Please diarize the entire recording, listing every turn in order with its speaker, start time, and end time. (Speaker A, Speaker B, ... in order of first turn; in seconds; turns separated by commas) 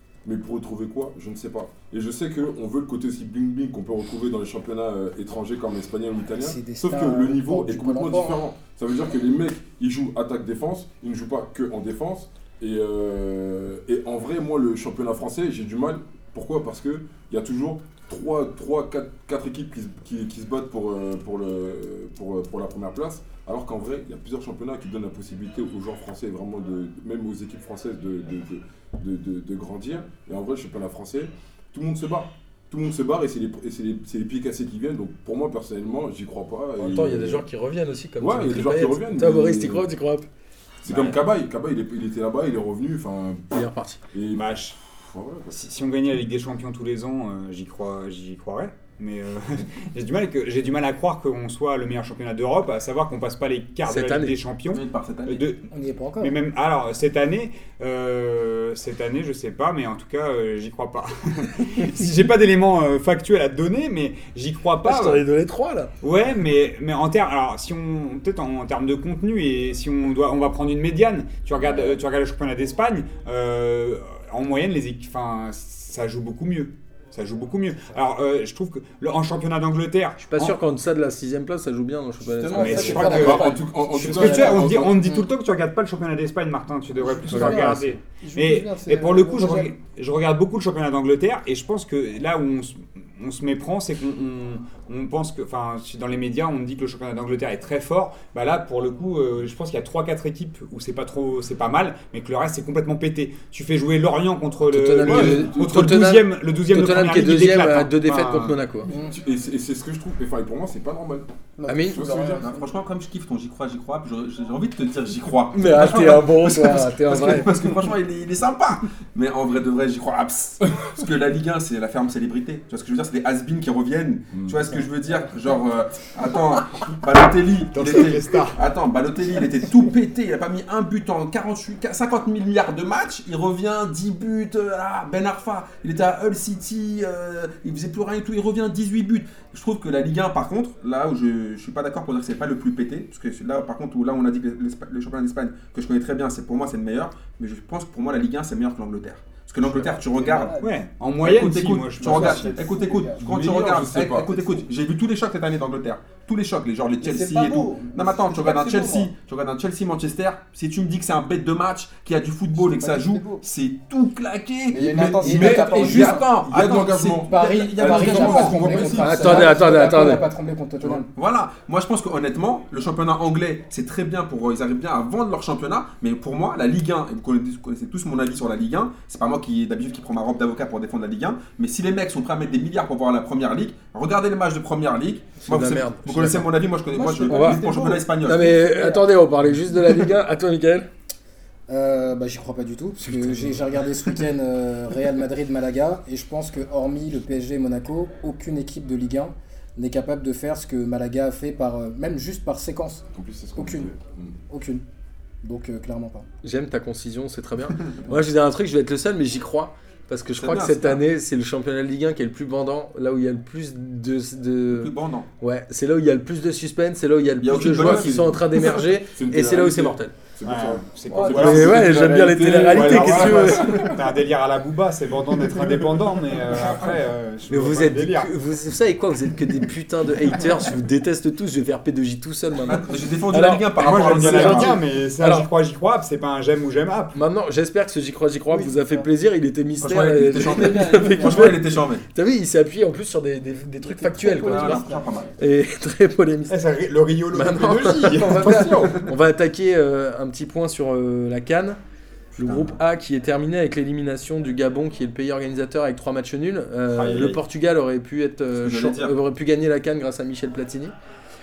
Speaker A: 0.2-37.5, Speaker B: 6.4-8.4, Speaker C: 36.8-40.3, Speaker A: 38.2-39.9, Speaker A: 40.8-43.5, Speaker D: 40.9-41.2, Speaker C: 43.5-44.0, Speaker A: 44.1-45.5, Speaker E: 44.3-44.8, Speaker E: 45.5-55.6, Speaker C: 53.9-54.4, Speaker D: 54.7-55.4, Speaker B: 55.7-56.4, Speaker E: 56.2-65.2, Speaker C: 64.8-65.9, Speaker E: 66.0-80.6, Speaker C: 80.2-84.7, Speaker F: 82.2-83.8, Speaker E: 82.5-108.6, Speaker B: 82.9-83.4, Speaker A: 83.0-85.0, Speaker B: 84.1-85.3, Speaker F: 87.0-89.7, Speaker C: 87.3-88.0, Speaker C: 104.7-108.9, Speaker A: 105.0-105.7, Speaker A: 109.0-111.2, Speaker F: 111.6-112.7, Speaker C: 111.7-112.0, Speaker A: 111.9-112.4, Speaker D: 112.4-150.5, Speaker C: 115.5-117.5, Speaker A: 124.3-124.6, Speaker E: 127.7-128.6, Speaker F: 149.7-150.8, Speaker E: 150.6-152.6, Speaker D: 151.2-169.4, Speaker F: 151.9-153.4, Speaker A: 153.2-154.4, Speaker F: 157.0-159.1, Speaker F: 162.6-163.4, Speaker F: 164.7-166.3, Speaker A: 164.9-169.4, Speaker B: 165.2-166.1, Speaker B: 167.2-171.1, Speaker C: 168.4-170.2, Speaker D: 170.8-188.5, Speaker C: 185.4-186.5, Speaker F: 186.9-188.1, Speaker C: 187.2-187.6, Speaker C: 188.2-190.9, Speaker B: 191.7-203.9, Speaker C: 193.0-194.2, Speaker A: 203.1-204.4, Speaker B: 204.5-204.8, Speaker B: 205.4-206.3, Speaker C: 206.4-220.1, Speaker D: 210.3-211.0, Speaker D: 214.7-215.3, Speaker D: 217.4-218.8, Speaker A: 217.6-224.0, Speaker E: 220.4-221.9, Speaker F: 221.1-221.5, Speaker C: 221.3-223.9, Speaker E: 222.6-228.3, Speaker C: 227.5-235.5, Speaker D: 232.7-234.8, Speaker E: 233.8-237.2, Speaker C: 237.1-244.8, Speaker F: 238.5-239.1, Speaker D: 239.8-242.0, Speaker F: 240.4-241.6, Speaker F: 243.8-245.3, Speaker D: 244.3-245.3, Speaker C: 245.4-246.7, Speaker E: 246.5-249.1, Speaker C: 247.3-251.8, Speaker C: 252.3-260.9, Speaker D: 252.4-252.8, Speaker E: 256.9-257.4, Speaker D: 257.1-257.4, Speaker D: 258.6-259.1